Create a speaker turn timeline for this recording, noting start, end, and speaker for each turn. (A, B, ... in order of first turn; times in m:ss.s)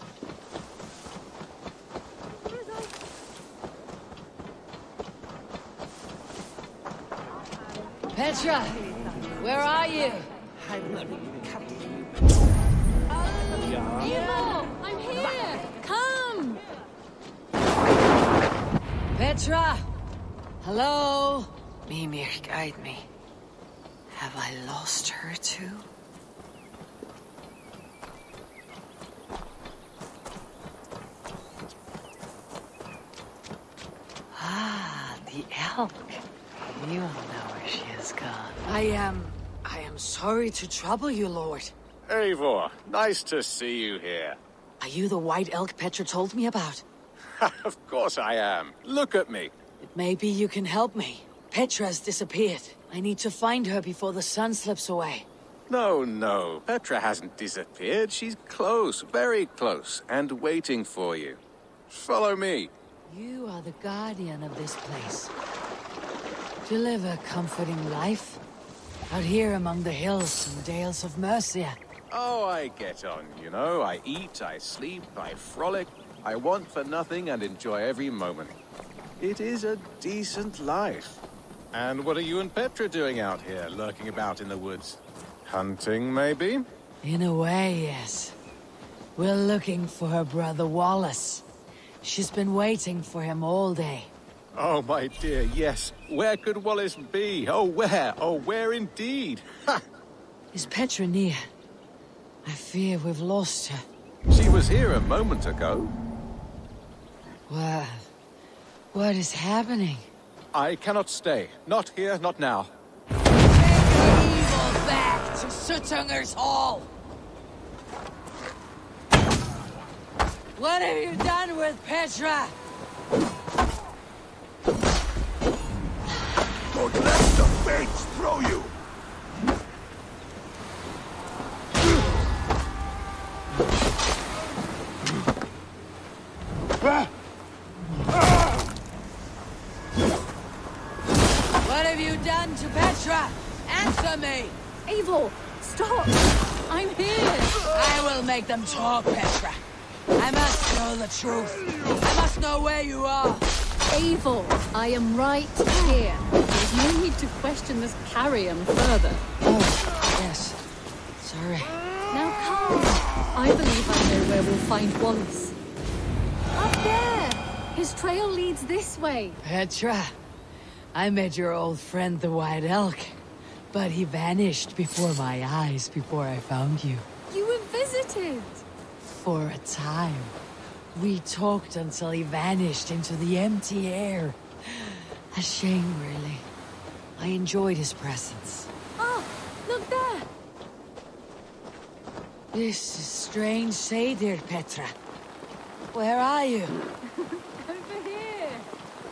0:08.1-0:08.8 A
0:09.4-0:10.3 A
0:13.9-0:16.6 B
0:19.1-0:19.8 A
0:20.6-0:23.0 A
0:24.1-0:25.8 A
0:34.3-0:41.7 A
0:42.1-0:44.4 C
0:44.8-0:46.8 A
0:47.4-0:49.5 C
0:49.8-0:55.3 A
0:55.7-1:02.7 C
1:03.0-1:05.3 A
1:06.6-1:08.4 A
1:09.1-1:11.8 A
1:12.1-1:18.5 C
1:19.2-1:21.2 C
1:21.7-1:26.6 C
1:27.0-1:28.3 A
1:29.2-1:31.4 A
1:32.0-1:34.1 A
1:34.6-1:39.8 C
1:40.5-1:41.4 A
1:42.4-1:43.8 A
1:44.3-1:45.9 C
1:47.5-1:48.1 A
1:48.9-1:50.1 A
1:50.5-1:52.7 C
1:53.5-1:56.9 A
2:00.6-2:02.5 A
2:06.7-2:08.7 D
2:21.6-2:24.6 A
2:24.8-2:27.6 B
2:27.7-2:29.6 A
2:30.2-2:33.5 A
2:33.9-2:39.2 B
2:39.4-2:40.6 A
2:41.2-2:41.8 A
2:42.1-2:45.5 B
2:46.6-2:49.4 B
2:49.4-2:50.1 A
2:50.9-2:53.2 A
2:53.7-2:57.0 A
2:57.3-2:58.6 B
2:59.0-3:00.4 A
3:00.9-3:06.4 A
3:07.2-3:08.7 A
3:09.0-3:10.3 B
3:12.5-3:14.9 A
3:15.9-3:16.8 A
3:17.1-3:18.7 B